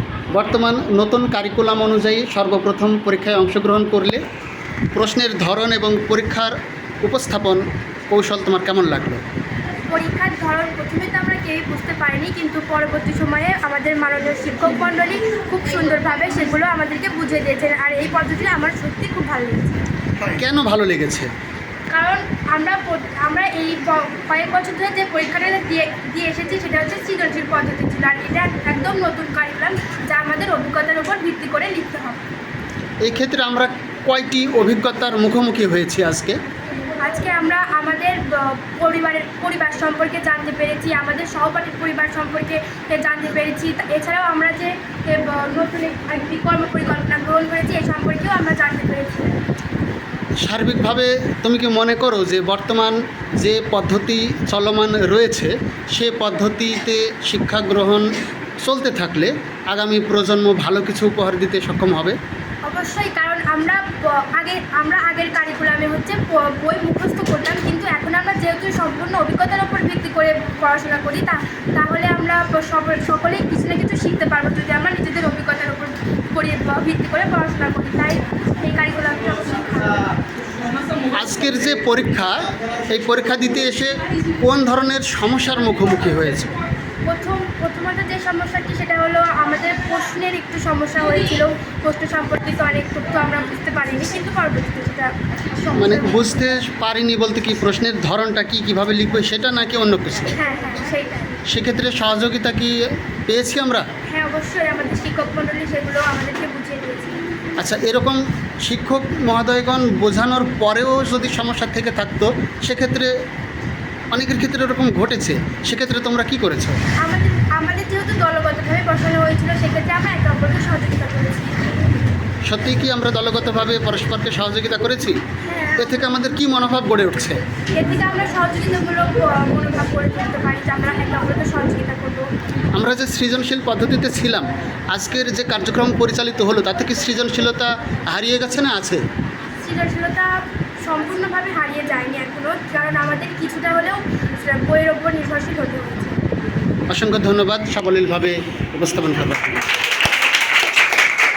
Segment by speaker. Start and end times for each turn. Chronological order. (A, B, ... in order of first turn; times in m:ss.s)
0:00.3-0:04.2 A
0:04.9-0:09.2 A
0:09.9-0:19.8 B
0:20.2-0:21.3 A
0:21.9-0:32.2 B
0:33.0-0:36.4 A
0:36.8-0:49.4 B
0:50.4-0:58.1 A
0:58.6-1:02.2 A
1:02.6-1:20.2 B
1:21.1-1:26.5 A
1:27.0-1:36.3 B
1:35.8-1:40.4 A
1:40.4-1:41.4 B
1:41.5-1:43.9 A
1:44.1-1:47.2 B
1:47.6-1:53.1 A
1:54.1-1:56.8 A
1:57.0-2:01.6 B
2:02.4-2:05.2 A
2:05.4-2:06.4 B
2:05.8-2:07.4 A
2:07.7-2:12.3 B
2:12.8-2:19.0 A
2:19.6-2:26.2 B
2:26.9-2:29.6 A